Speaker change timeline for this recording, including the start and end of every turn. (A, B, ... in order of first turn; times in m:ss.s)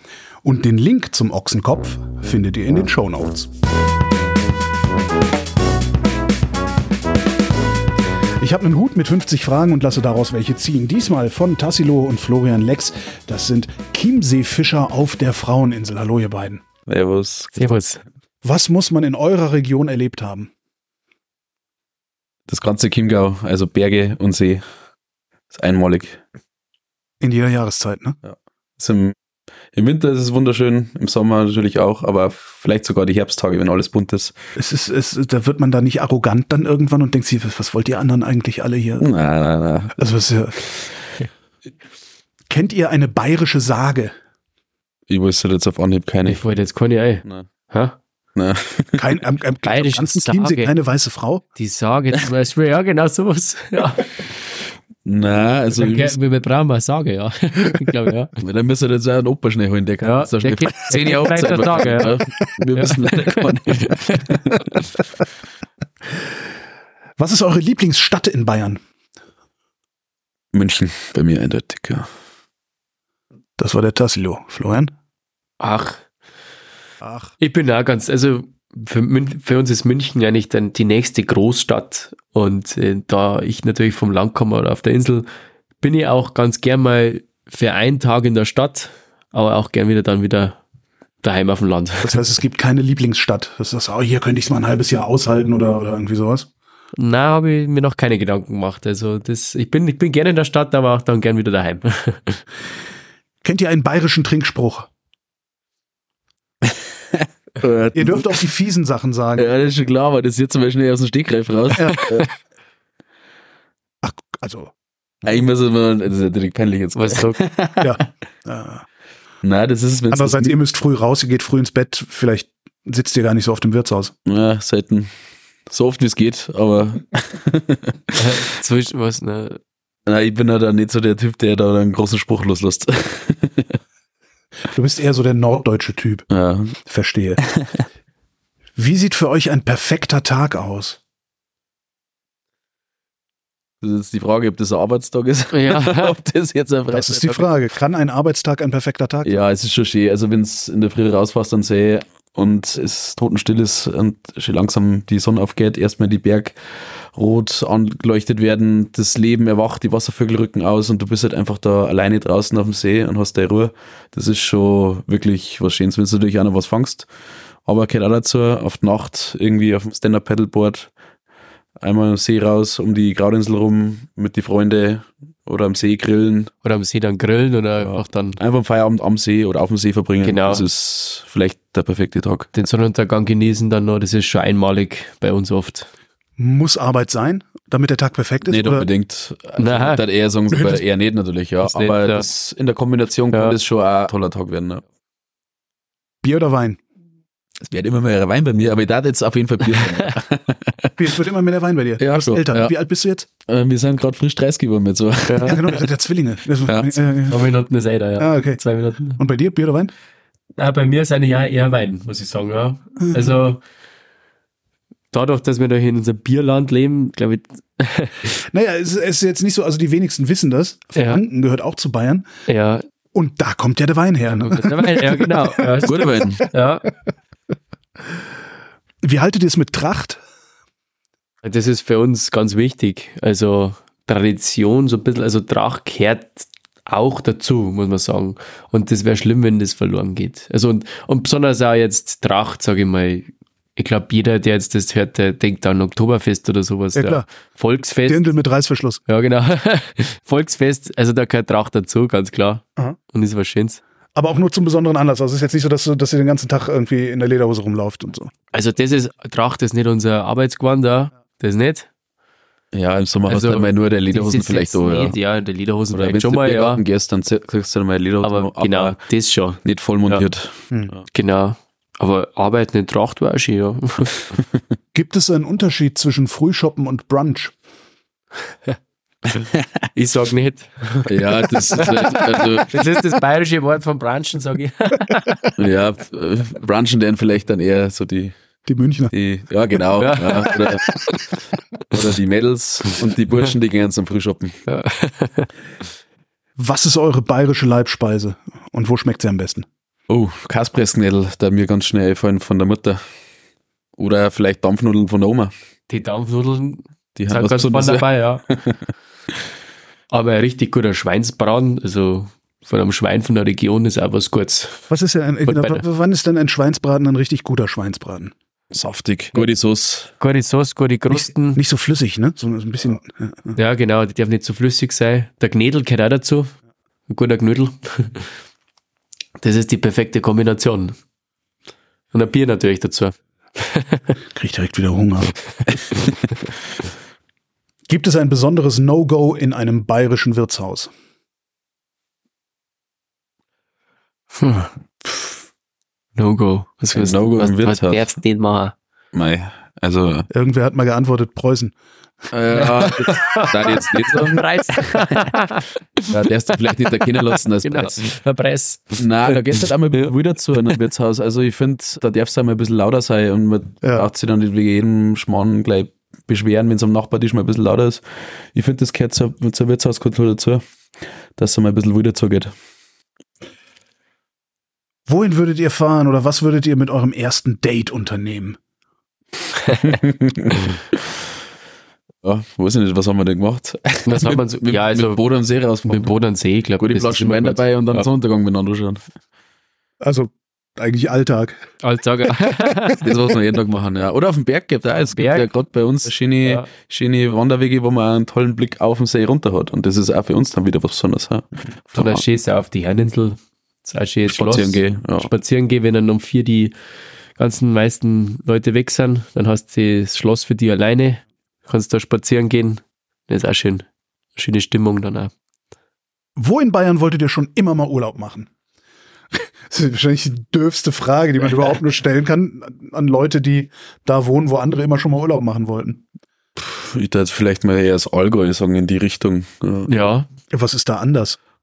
0:00.4-0:03.5 A
0:08.4-0:16.6 A
0:16.9-0:17.7 B
0:17.5-0:18.0 C
0:18.4-0:20.5 A
0:22.5-0:24.6 B
0:25.5-0:26.2 B
0:27.2-0:28.2 A
0:28.2-0:29.1 B
0:29.7-0:34.3 B
0:34.6-0:39.1 A
0:39.0-0:40.0 B
0:40.0-0:40.6 A
0:42.5-0:44.1 A
0:45.1-0:46.4 B
0:46.3-0:48.0 C
0:48.4-0:49.1 B
0:49.0-0:51.4 A
0:49.6-0:50.7 C
0:51.6-0:54.1 C
0:55.0-0:56.2 B
0:55.7-0:58.3 C
0:58.4-1:04.9 B
1:00.0-1:02.2 C
1:02.8-1:04.0 C
1:07.2-1:08.8 A
1:10.5-1:12.1 B
1:13.6-1:14.9 A
1:15.6-1:16.0 C
1:17.0-1:17.3 A
1:17.4-1:25.2 C
1:25.8-1:30.6 C
1:31.2-1:32.2 C
1:32.0-1:36.5 A
1:36.9-1:42.4 C
1:43.4-1:44.9 A
1:47.1-1:48.4 B
1:47.9-1:49.5 A
1:49.4-1:52.3 B
1:51.8-1:52.1 A
1:54.0-1:54.7 A
1:55.2-1:58.0 B
1:57.0-1:57.4 C
1:57.8-1:58.8 A
1:59.4-2:00.6 B
2:00.1-2:04.1 A
2:04.2-2:05.1 B
2:05.7-2:08.1 B
2:08.2-2:09.6 C
2:10.1-2:13.8 B
2:14.7-2:16.3 A
2:16.3-2:16.8 B
2:16.8-2:17.4 A
2:18.8-2:21.0 A
2:23.8-2:27.5 B
2:25.5-2:26.2 C
2:26.9-2:29.4 A
2:29.2-2:36.6 B
2:37.1-2:47.1 B
2:47.6-2:50.9 B
2:51.8-2:56.5 B
2:56.6-2:58.4 C
2:57.8-3:02.5 B
3:00.2-3:00.6 C
3:02.5-3:05.9 C
3:06.4-3:08.9 A
3:08.4-3:14.8 B
3:09.6-3:10.0 C
3:10.5-3:10.8 A
3:11.6-3:12.2 C
3:13.3-3:13.6 C
3:16.2-3:16.8 A
3:17.6-3:20.9 B
3:21.0-3:23.3 A
3:22.0-3:22.7 B
3:23.5-3:25.8 B
3:25.3-3:25.6 C
3:25.4-3:27.5 A
3:26.7-3:27.0 B
3:27.3-3:29.2 C
3:28.2-3:29.9 A
3:30.6-3:33.6 C
3:33.0-3:33.3 A
3:35.1-3:38.3 C
3:38.5-3:42.2 A
3:40.9-3:41.2 C
3:42.5-3:42.8 C
3:43.1-3:45.8 A
3:44.3-3:46.8 C
3:45.8-3:46.4 B
3:49.0-3:50.2 A
3:51.4-4:08.4 C
4:06.9-4:07.2 A
4:08.0-4:09.0 A
4:09.1-4:13.8 C
4:14.1-4:18.3 A
4:18.5-4:21.9 C
4:22.7-4:25.2 B
4:23.2-4:26.8 C
4:25.9-4:29.0 B
4:28.2-4:30.3 C
4:29.6-4:31.0 B
4:31.1-4:34.3 C
4:34.9-4:37.5 A
4:39.9-4:45.6 C
4:41.1-4:42.7 B
4:45.6-4:48.3 B
4:48.6-4:49.1 A
4:49.1-4:51.1 B
4:50.0-4:51.2 C
4:51.9-4:54.6 B
4:54.7-4:55.5 C
4:56.6-4:59.6 A
5:00.1-5:03.0 B
5:04.0-5:05.5 B
5:05.9-5:08.4 C
5:07.2-5:08.8 B
5:10.1-5:14.9 C
5:14.9-5:18.3 A
5:15.5-5:15.8 C
5:18.7-5:20.1 B
5:20.2-5:21.6 C
5:21.1-5:23.6 A
5:23.6-5:26.5 C
5:27.1-5:28.3 C
5:29.4-5:31.0 C
5:32.1-5:34.1 C
5:34.3-5:35.3 A
5:37.9-5:40.9 A
5:44.4-5:44.7 C
5:46.2-5:48.7 C
5:46.9-5:48.1 B
5:49.1-5:50.3 B
5:50.3-5:51.7 A
5:52.3-5:54.5 B
5:52.5-5:56.1 C
5:56.1-5:58.1 B
5:56.8-6:00.1 C
5:59.0-6:08.0 B
6:03.8-6:04.1 A
6:08.5-6:10.6 B
6:11.4-6:12.5 B
6:15.1-6:18.6 A
6:19.8-6:20.6 B
6:22.2-6:26.1 B
6:24.0-6:25.2 C
6:25.8-6:28.0 C
6:26.8-6:29.0 B
6:30.0-6:31.6 A
6:31.8-6:33.1 C
6:33.0-6:42.2 B
6:35.0-6:35.5 C
6:41.9-6:46.7 C
6:44.3-6:45.3 B
6:47.4-6:55.3 C
6:56.4-6:58.5 A
6:59.7-7:06.0 A
7:06.6-7:09.9 B
7:09.9-7:10.3 C
7:10.5-7:11.4 A